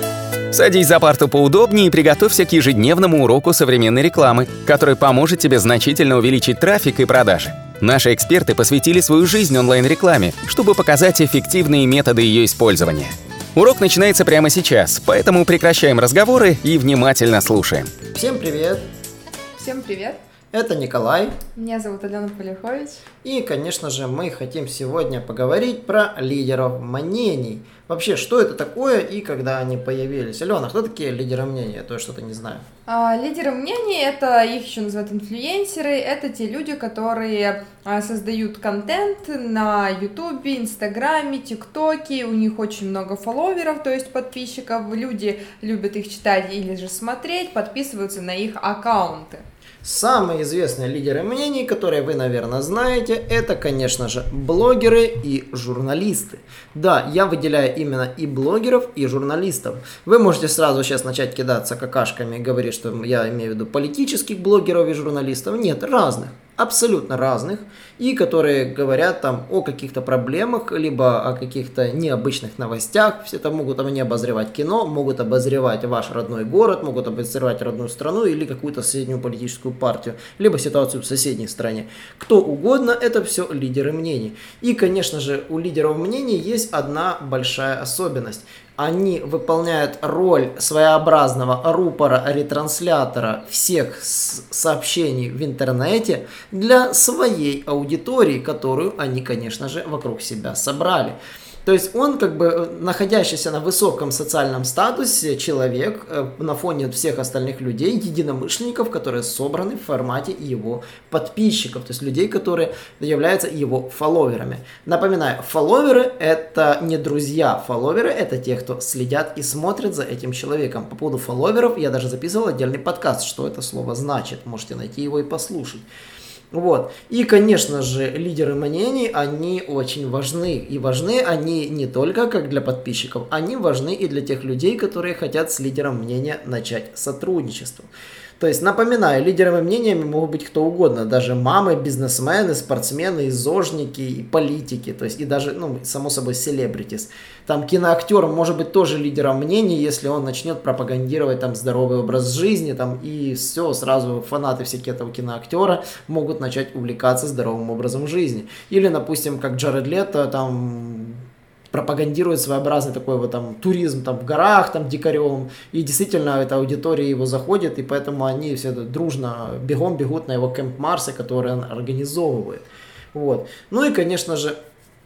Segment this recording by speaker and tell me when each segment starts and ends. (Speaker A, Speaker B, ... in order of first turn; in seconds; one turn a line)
Speaker A: 0.5-17.9
Speaker B: 18.1-18.8
Speaker C: 19.6-20.2
Speaker B: 20.5-21.4
Speaker C: 21.5-23.0
Speaker B: 23.2-32.6
Speaker C: 32.9-49.4
Speaker B: 49.8-125.8
Speaker B: 126.5-174.6